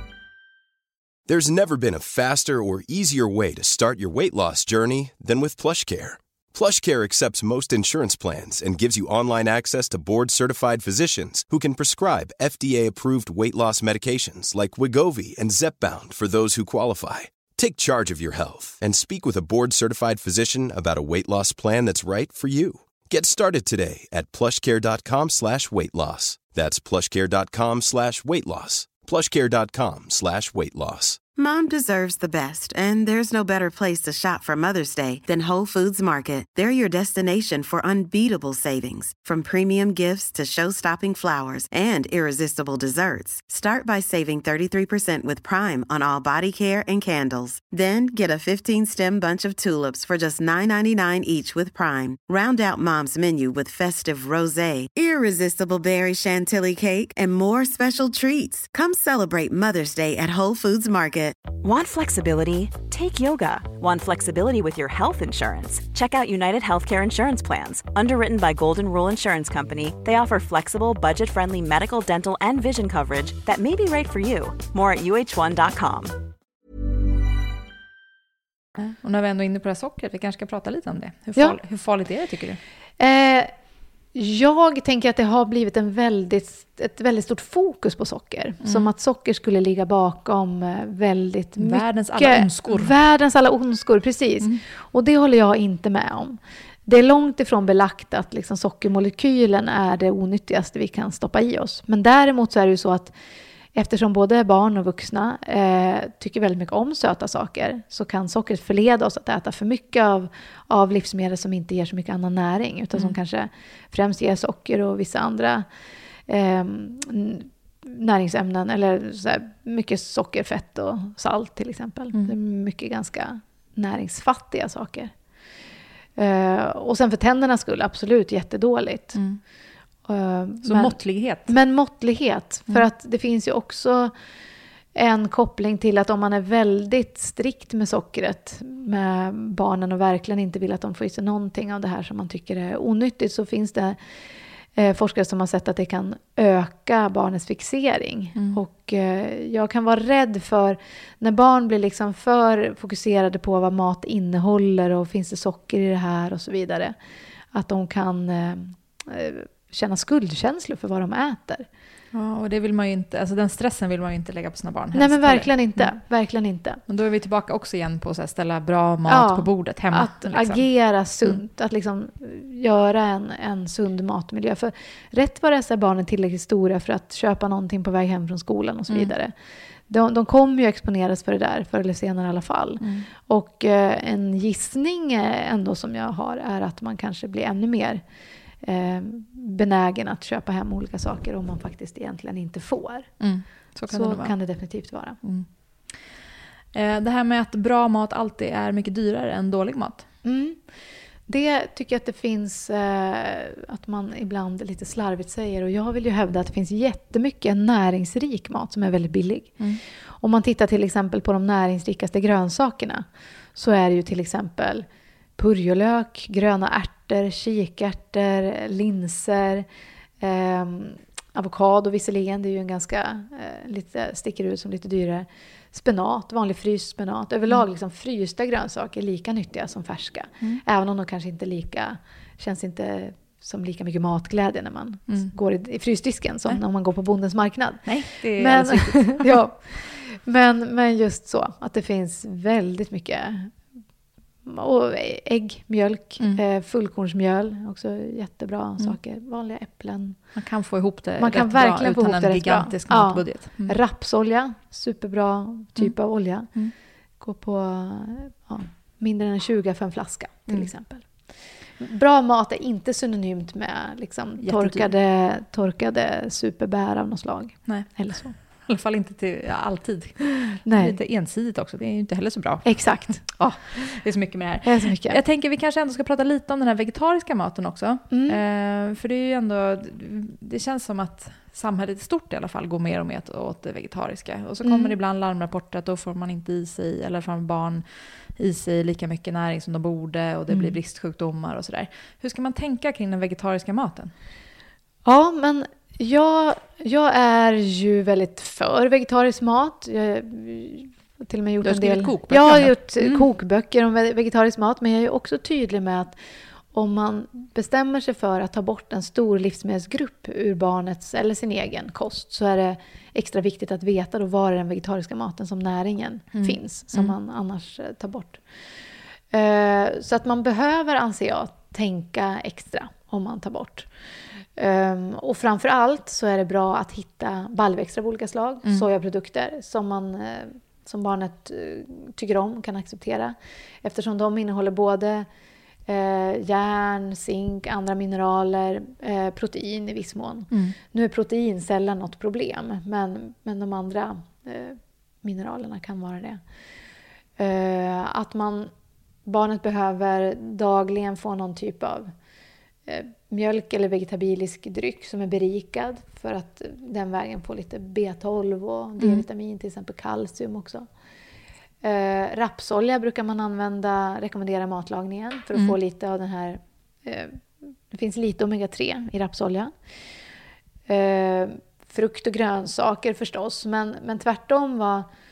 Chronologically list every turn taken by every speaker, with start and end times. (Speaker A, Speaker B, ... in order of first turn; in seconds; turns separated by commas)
Speaker A: 1.3-31.2, Speaker B: 31.4-61.5, Speaker C: 61.6-76.2, Speaker D: 78.8-82.6, Speaker E: 83.0-83.5, Speaker E: 84.2-103.1, Speaker D: 88.6-88.9, Speaker D: 91.6-93.0, Speaker E: 103.7-115.7, Speaker E: 116.3-125.1, Speaker E: 126.2-129.2, Speaker D: 129.1-129.4, Speaker E: 130.1-134.1, Speaker D: 130.6-131.5, Speaker E: 134.9-144.0, Speaker E: 144.8-157.0, Speaker E: 157.5-161.7, Speaker D: 162.1-165.9, Speaker E: 164.9-166.8, Speaker D: 166.9-170.6, Speaker E: 169.1-179.3, Speaker E: 179.9-188.0, Speaker D: 182.8-183.1, Speaker E: 188.6-193.2, Speaker D: 193.2-194.3, Speaker E: 193.9-195.2, Speaker D: 195.2-195.5, Speaker D: 196.7-200.1, Speaker E: 200.2-200.6, Speaker E: 201.3-209.6, Speaker E: 210.1-214.9, Speaker E: 215.4-219.7, Speaker E: 220.2-243.6, Speaker D: 237.8-239.4, Speaker E: 244.4-250.2, Speaker D: 250.3-253.8, Speaker E: 251.2-256.5, Speaker D: 256.5-256.7, Speaker E: 257.2-261.1, Speaker E: 261.8-268.3, Speaker D: 264.4-264.9, Speaker D: 267.7-287.9, Speaker E: 270.6-271.0, Speaker E: 272.6-273.2, Speaker E: 274.6-275.2, Speaker E: 278.1-278.4, Speaker E: 284.6-285.0, Speaker D: 288.4-294.1, Speaker E: 290.5-290.8, Speaker E: 295.1-306.1, Speaker D: 301.6-303.3, Speaker E: 306.7-318.4, Speaker D: 316.3-317.1, Speaker E: 319.3-323.9, Speaker E: 324.6-335.3, Speaker E: 335.9-346.4, Speaker E: 347.4-348.7, Speaker E: 349.2-352.1, Speaker E: 352.9-360.9, Speaker E: 361.8-369.7, Speaker E: 370.9-375.1